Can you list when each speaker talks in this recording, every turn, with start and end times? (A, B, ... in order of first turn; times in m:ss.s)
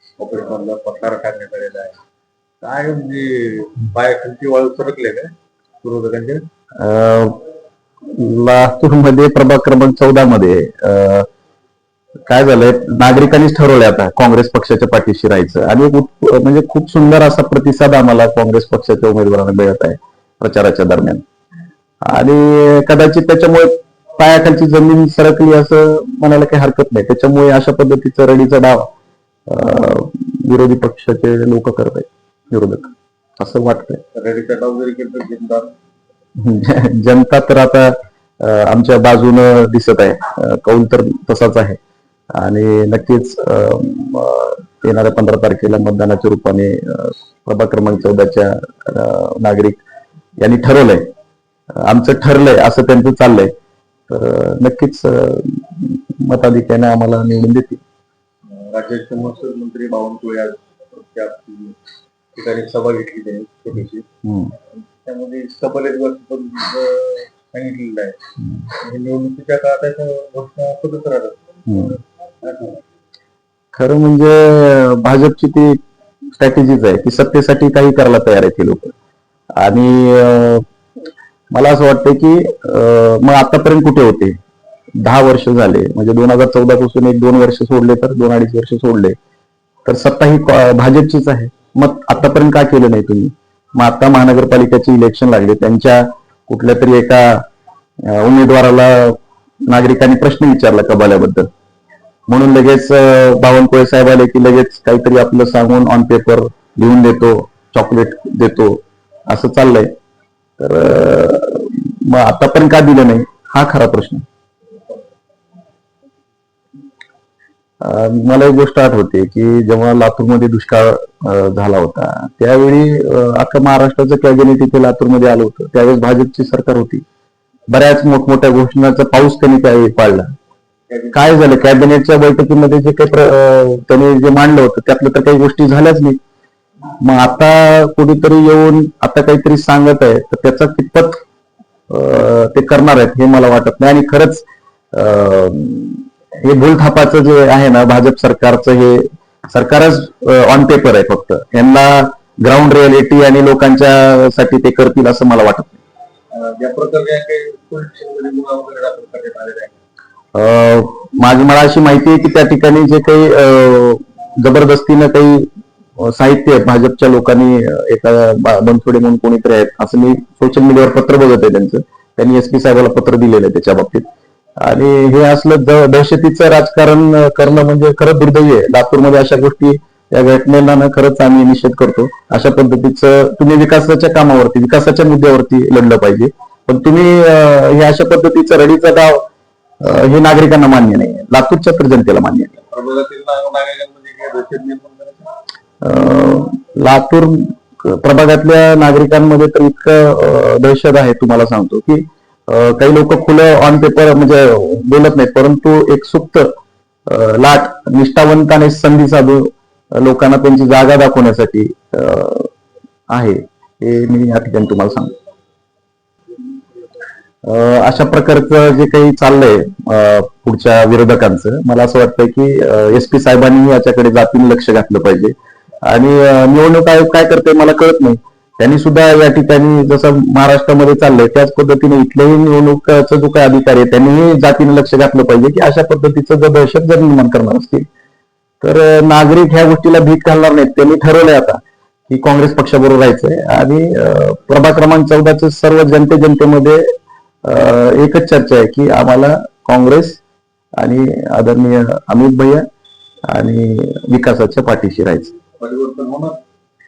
0:00.2-0:01.9 A
0:02.6-0:05.3 A
0:05.8-0:06.4 A
0:06.8-0:07.4 B
0:08.1-0:11.3 B
0:12.3-0:21.2 B
0:22.0-0:28.9 B
0:29.5-0:34.0 B
0:34.1-0:35.7 A
0:36.4-0:41.8 B
0:42.3-0:49.8 B
0:50.4-0:51.0 B
0:51.8-0:53.5 B
0:54.1-0:57.8 B
0:58.5-1:01.8 A
1:02.3-1:04.1 A
1:04.2-1:04.5 B
1:05.0-1:11.6 A
1:11.7-1:12.0 B
1:12.4-1:12.8 A
1:13.7-1:15.8 B
1:16.3-1:18.9 B
1:19.6-1:20.6 B
1:21.5-1:24.4 B
1:25.0-1:29.2 B
1:29.8-1:37.4 B
1:38.0-1:41.5 B
1:42.3-1:49.9 B
1:50.6-1:54.2 B
1:57.8-2:07.0 B
2:07.7-2:10.3 B
2:10.9-2:11.2 A
2:11.1-2:16.2 B
2:17.0-2:21.2 B
2:21.9-2:35.8 B
2:36.3-2:39.8 A
2:40.3-2:54.1 B
2:54.6-3:09.2 B
3:09.8-3:12.6 B
3:12.7-3:15.3 A
3:15.8-3:26.5 B
3:27.0-3:32.5 B
3:33.1-3:35.2 B
3:37.4-3:57.9 B
3:58.6-4:06.8 B
4:07.4-4:10.2 B
4:10.8-4:12.6 B
4:13.3-4:15.3 B
4:15.6-4:16.4 A